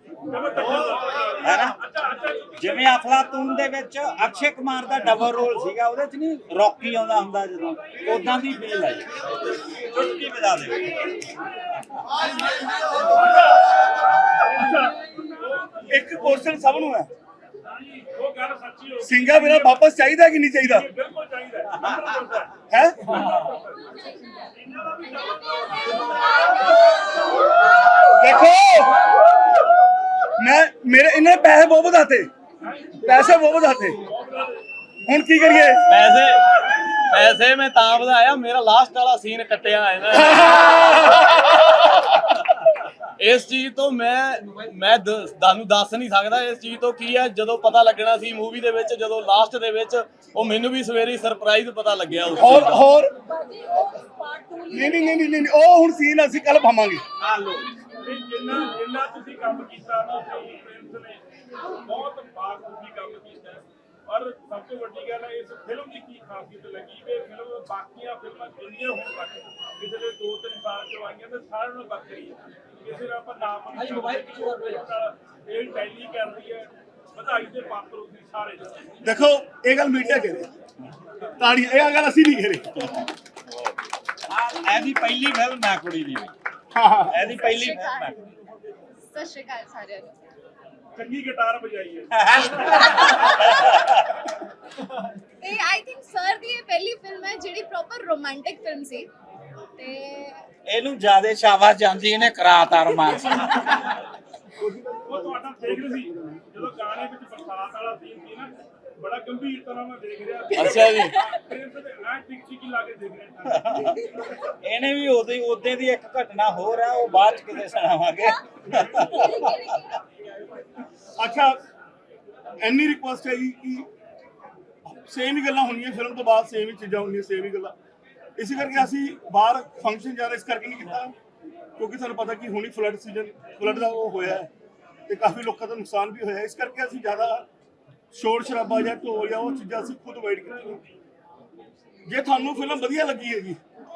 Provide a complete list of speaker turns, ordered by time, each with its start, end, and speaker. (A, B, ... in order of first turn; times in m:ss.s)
0:00.3-0:02.9 A
0:01.4-0:01.8 B
0:02.6-0:11.1 B
0:13.1-0:13.4 A
0:14.2-0:16.5 A
0:14.6-0:14.9 C
0:15.9-0:17.1 C
0:17.7-0:19.9 A
0:19.0-0:20.9 C
0:20.6-0:23.9 A
0:22.7-0:23.1 C
0:24.5-0:27.4 A
0:28.2-0:29.0 C
0:30.4-0:32.3 C
0:32.6-0:33.2 A
0:33.0-0:34.0 C
0:34.0-0:34.6 A
0:35.0-0:35.8 C
0:35.9-0:36.5 D
0:37.1-0:41.6 D
0:43.2-0:52.9 D
0:52.3-0:53.2 C
0:53.2-0:55.3 E
0:54.7-0:57.0 C
0:57.4-1:18.7 A
1:19.0-1:20.5 C
1:21.4-1:23.0 C
1:24.3-1:26.3 B
1:26.7-1:27.2 C
1:27.1-1:28.2 B
1:27.2-1:28.2 E
1:29.1-1:30.1 E
1:30.9-1:32.8 A
1:32.1-1:34.1 B
1:35.4-1:39.1 E
1:39.8-1:40.5 E
1:40.7-1:43.9 B
1:44.6-1:46.4 C
1:45.1-1:53.9 A
1:50.5-1:51.2 D
1:50.7-1:51.2 E
1:53.5-1:59.6 B
1:59.0-2:00.0 E
2:01.2-2:01.6 C
2:02.6-2:03.9 C
2:04.8-2:07.7 C
2:08.4-2:11.1 C
2:11.8-2:14.5 C
2:15.1-2:17.4 C
2:18.1-2:20.8 C
2:22.1-2:23.6 C